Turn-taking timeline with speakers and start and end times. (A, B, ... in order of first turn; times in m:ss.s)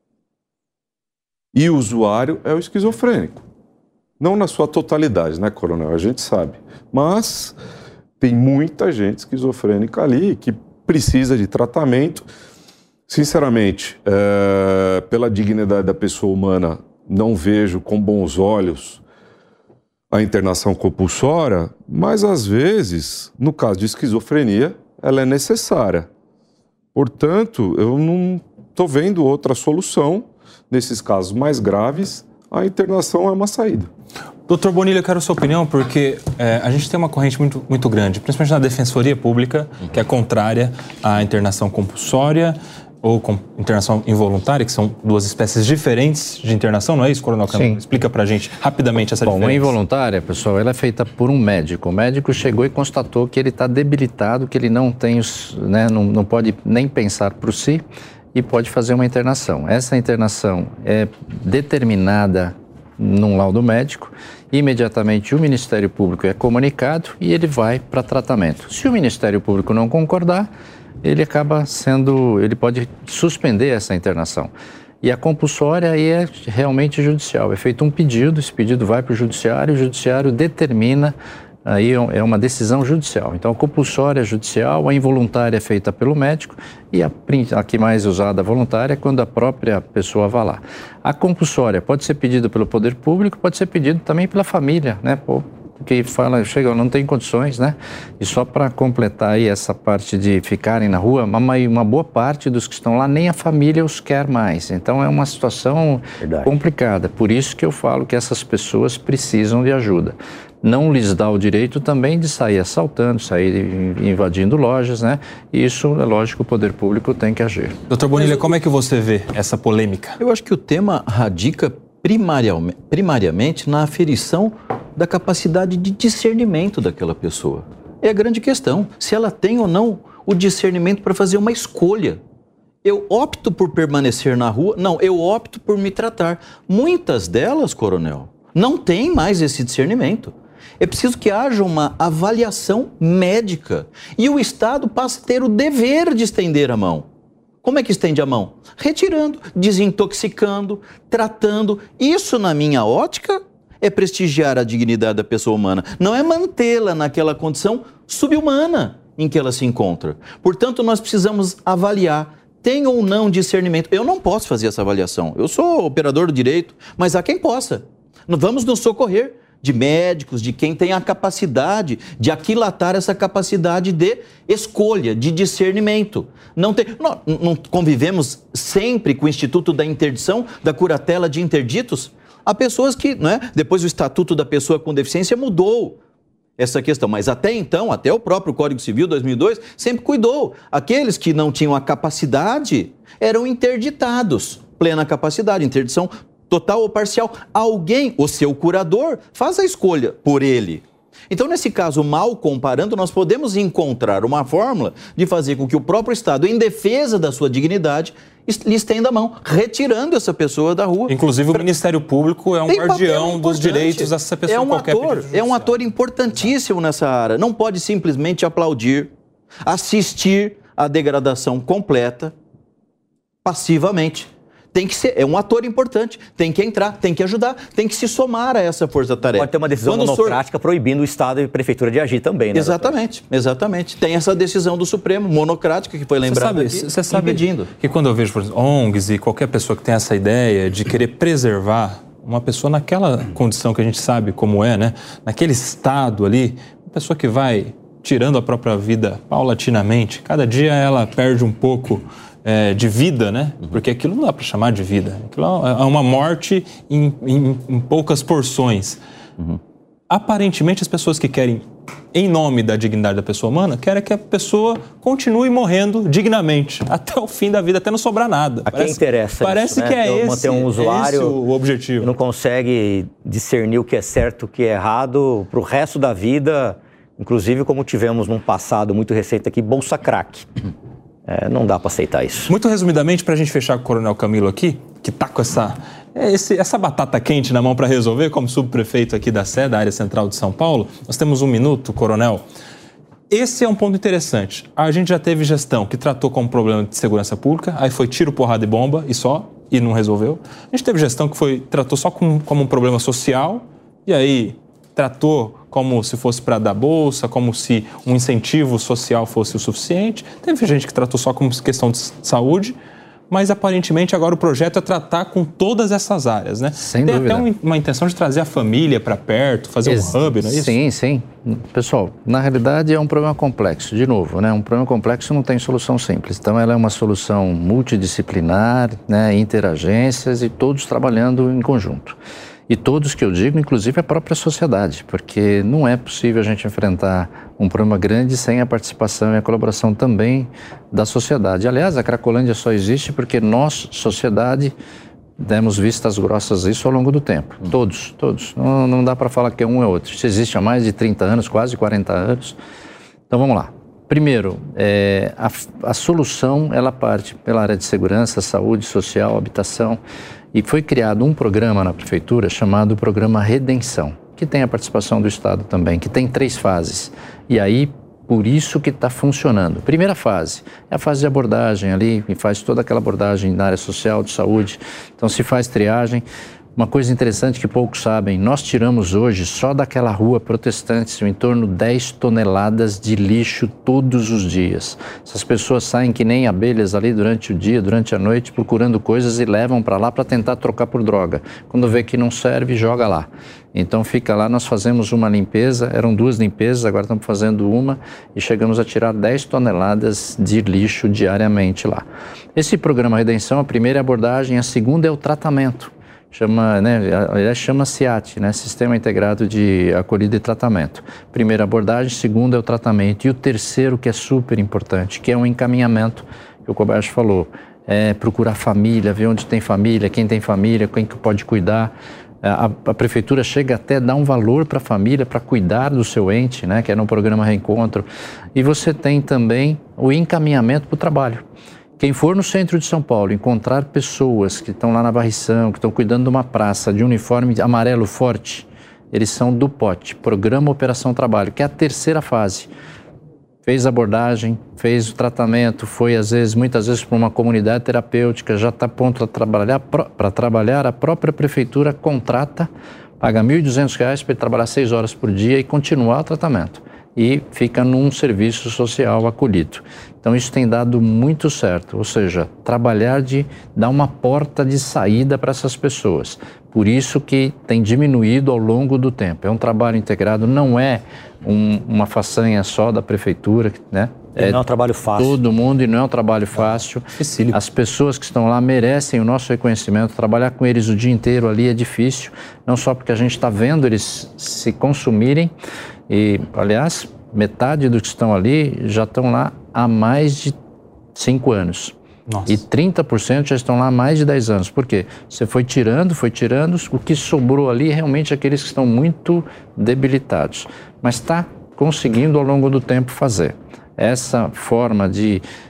0:01.5-0:03.4 A
0:04.2-0:07.6 A
0:08.2-0:12.3 A
0:13.1-0:19.0 A
0:20.1-0:26.1 A
0:26.9-0:33.9 A
0:34.5-0:49.7 B
0:47.5-0:47.8 C
0:49.2-0:57.8 C
0:58.3-1:10.5 C
1:11.0-1:14.5 C
1:15.0-1:57.8 C
1:46.2-1:46.5 D
1:57.9-2:00.2 B
2:00.2-2:12.2 E
2:12.8-2:27.0 E
2:27.6-3:06.0 E
3:06.6-3:31.6 E
3:31.1-3:35.7 B
3:32.7-3:39.1 E
3:39.6-3:42.3 E
3:43.4-3:50.4 E
3:49.3-3:53.0 D
3:52.5-3:57.7 E
3:56.2-4:19.0 B
4:20.1-4:32.1 B
4:28.7-4:31.4 D
4:32.0-4:40.5 D
4:41.3-4:42.5 D
4:42.5-4:52.4 B
4:53.3-5:12.8 B
5:13.3-5:20.8 B
5:16.8-5:17.4 C
5:19.8-5:32.2 C
5:32.7-5:44.7 C
5:45.4-5:52.6 C
5:53.3-6:00.0 C
6:00.5-6:16.2 C
6:16.8-7:11.4 C
7:12.0-7:22.7 C
7:23.6-7:32.7 C
7:33.2-7:54.6 C
7:54.4-7:55.4 D
7:55.2-8:05.5 C
7:57.2-7:57.6 B
8:06.1-8:10.6 C
8:11.1-8:11.9 C
8:12.3-8:12.5 B
8:12.4-8:25.4 C